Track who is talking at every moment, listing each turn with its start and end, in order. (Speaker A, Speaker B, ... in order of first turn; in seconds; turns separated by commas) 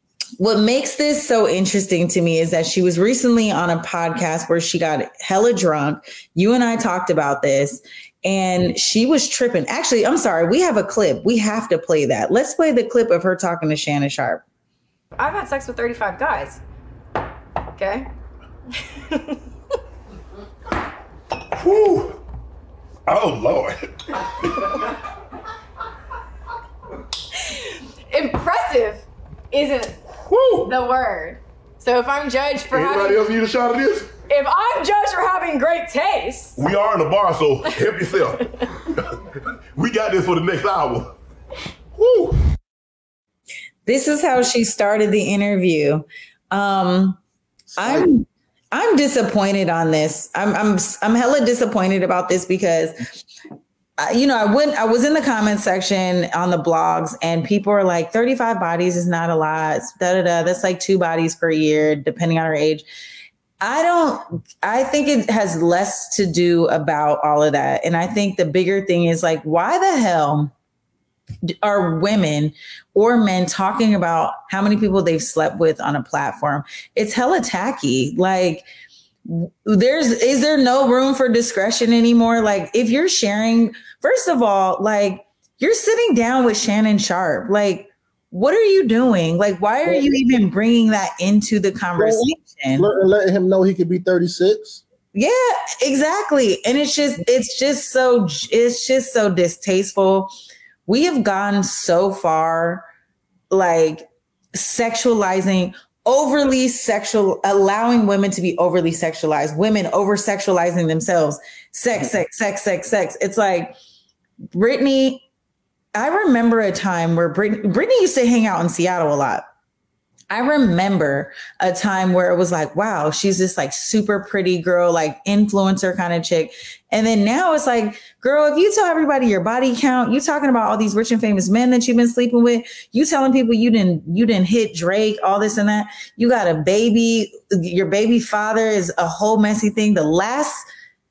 Speaker A: 0.4-14.4, Speaker B: 15.2-16.6, Speaker B: 17.8-18.1, Speaker C: 21.6-22.2, Speaker C: 23.1-23.9, Speaker B: 28.1-30.0, Speaker C: 30.3-30.8, Speaker B: 30.6-33.3, Speaker C: 32.7-34.2, Speaker B: 34.2-36.6, Speaker C: 36.5-38.5, Speaker C: 39.8-41.1, Speaker C: 42.0-42.4, Speaker A: 43.9-47.2, Speaker D: 47.8-48.1, Speaker A: 47.8-53.0, Speaker A: 54.0-62.9, Speaker A: 63.6-70.5, Speaker A: 71.6-78.6, Speaker A: 79.2-92.9, Speaker D: 89.8-90.2, Speaker D: 92.0-94.8, Speaker A: 95.1-100.3, Speaker A: 100.9-102.8, Speaker A: 103.5-113.7, Speaker A: 114.5-115.2, Speaker A: 115.9-119.4, Speaker A: 120.3-140.6